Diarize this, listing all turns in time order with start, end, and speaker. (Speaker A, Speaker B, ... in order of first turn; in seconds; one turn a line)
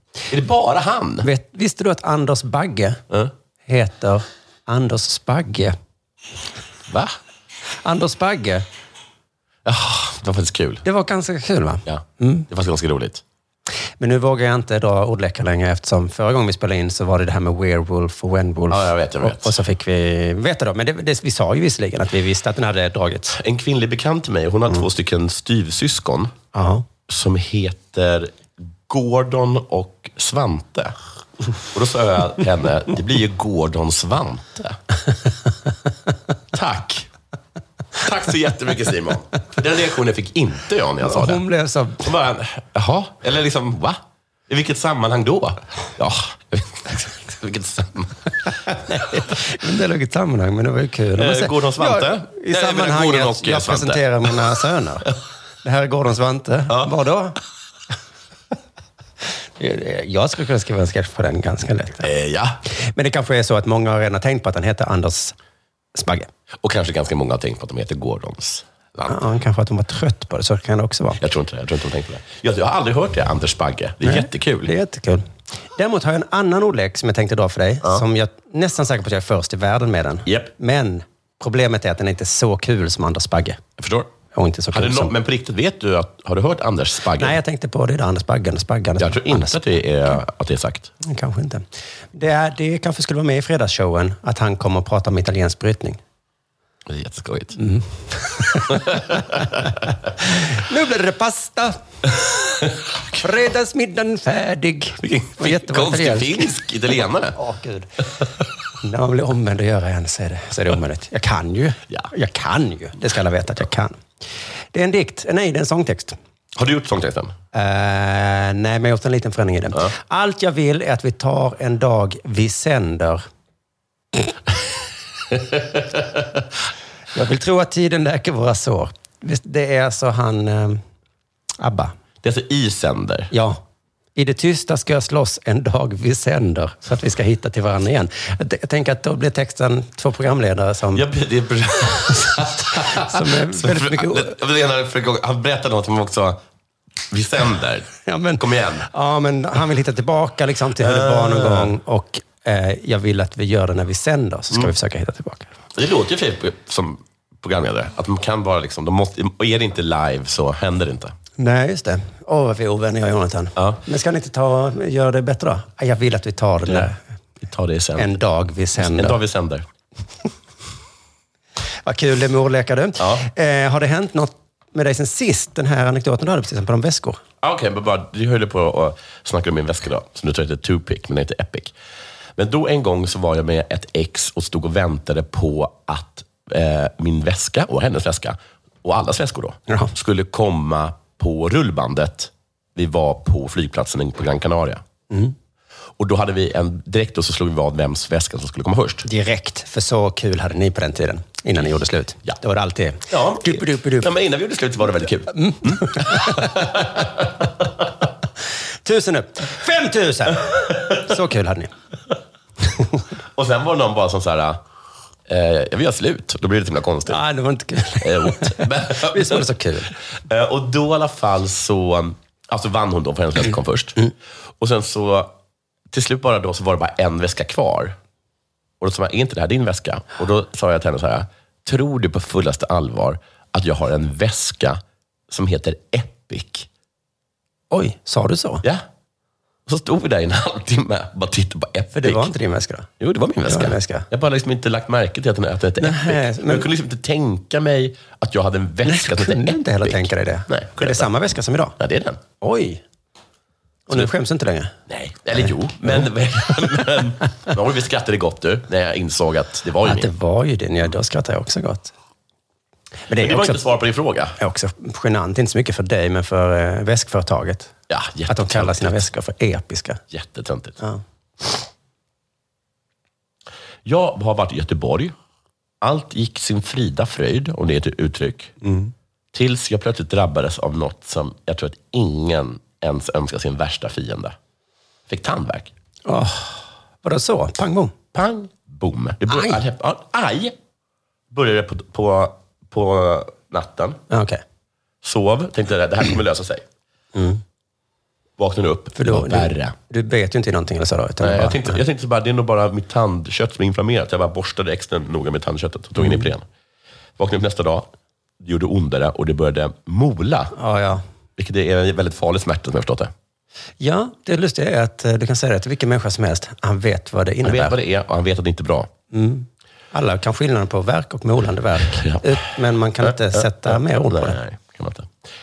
Speaker A: 0.3-1.3
Speaker B: 1.2-3.0
Speaker B: 3.6-5.8
Speaker A: 6.9-7.2
Speaker B: 7.8-8.6
Speaker A: 9.6-10.8
Speaker B: 10.8-12.5
Speaker A: 11.8-13.2
Speaker B: 14.0-23.4
Speaker A: 18.7-19.6
Speaker A: 23.3-26.3
Speaker B: 26.5-26.9
Speaker A: 27.1-30.9
Speaker A: 31.7-34.8
Speaker A: 36.5-37.1
Speaker A: 38.0-41.4
Speaker B: 41.0-42.1
Speaker A: 42.0-48.3
Speaker B: 48.7-57.4
Speaker A: 51.1-54.4
Speaker B: 59.6-62.1
Speaker A: 62.0-62.6
Speaker B: 62.7-65.3
Speaker B: 65.9-66.3
Speaker A: 66.6-69.2
Speaker B: 69.1-71.2
Speaker A: 71.2-74.7
Speaker B: 74.0-83.6
Speaker A: 83.8-84.1
Speaker B: 84.3-85.1
Speaker A: 84.7-87.4
Speaker B: 87.2-89.6
Speaker A: 89.0-90.9
Speaker B: 91.0-96.0
Speaker A: 96.9-97.6
Speaker B: 97.6-99.6
Speaker A: 98.7-99.6
Speaker B: 100.2-101.8
Speaker B: 103.2-106.5
Speaker A: 105.0-107.3
Speaker B: 107.3-107.9
Speaker B: 108.8-114.0
Speaker B: 114.7-116.2
Speaker A: 116.5-117.3
Speaker B: 117.5-123.2
Speaker A: 125.3-126.2
Speaker B: 127.1-130.8
Speaker B: 131.6-131.9
Speaker A: 132.2-133.3
Speaker B: 133.3-133.6
Speaker B: 134.1-141.0
Speaker A: 140.9-146.4
Speaker B: 142.7-144.4
Speaker A: 147.1-148.9
Speaker B: 148.1-155.5
Speaker A: 150.8-151.7
Speaker A: 155.7-161.2
Speaker B: 161.4-167.0
Speaker A: 167.4-168.1
Speaker B: 168.0-169.2
Speaker A: 168.8-169.7
Speaker B: 171.8-177.2
Speaker A: 177.4-181.7
Speaker A: 182.3-194.8
Speaker B: 195.1-195.3
Speaker A: 196.0-199.1
Speaker B: 199.0-204.1
Speaker A: 203.1-207.6
Speaker B: 205.3-206.9
Speaker B: 208.8-211.7
Speaker A: 210.6-210.9
Speaker A: 213.3-214.6
Speaker A: 215.3-217.2
Speaker B: 217.1-219.9
Speaker A: 218.0-219.5
Speaker A: 220.2-225.3
Speaker A: 225.9-227.9
Speaker A: 228.8-236.7
Speaker B: 237.7-238.6
Speaker A: 239.7-242.3
Speaker B: 241.9-242.9
Speaker A: 243.0-251.1
Speaker B: 243.5-244.1
Speaker B: 245.8-246.7
Speaker B: 248.8-251.8
Speaker A: 251.8-252.2
Speaker B: 252.4-252.8
Speaker B: 253.9-254.7
Speaker A: 254.9-260.1
Speaker B: 255.4-257.0
Speaker B: 259.8-261.9
Speaker B: 263.1-263.6
Speaker A: 263.2-264.4
Speaker B: 264.4-267.7
Speaker A: 267.9-269.1
Speaker B: 268.3-270.0
Speaker A: 270.1-270.8
Speaker A: 273.8-275.1
Speaker A: 275.8-278.5
Speaker B: 278.6-278.9
Speaker A: 279.3-284.3
Speaker A: 285.1-285.7
Speaker B: 286.0-287.9
Speaker A: 288.1-290.6
Speaker A: 291.3-294.0
Speaker B: 294.1-294.4
Speaker A: 295.0-296.6
Speaker B: 297.1-297.4
Speaker A: 298.4-299.7
Speaker B: 298.9-301.8
Speaker A: 301.2-306.4
Speaker B: 306.0-306.2
Speaker A: 307.2-307.9
Speaker A: 308.4-310.5
Speaker B: 310.5-311.0
Speaker A: 311.4-313.1
Speaker B: 313.8-317.8
Speaker A: 317.4-318.9
Speaker B: 319.1-324.4
Speaker A: 321.9-322.4
Speaker A: 323.0-325.1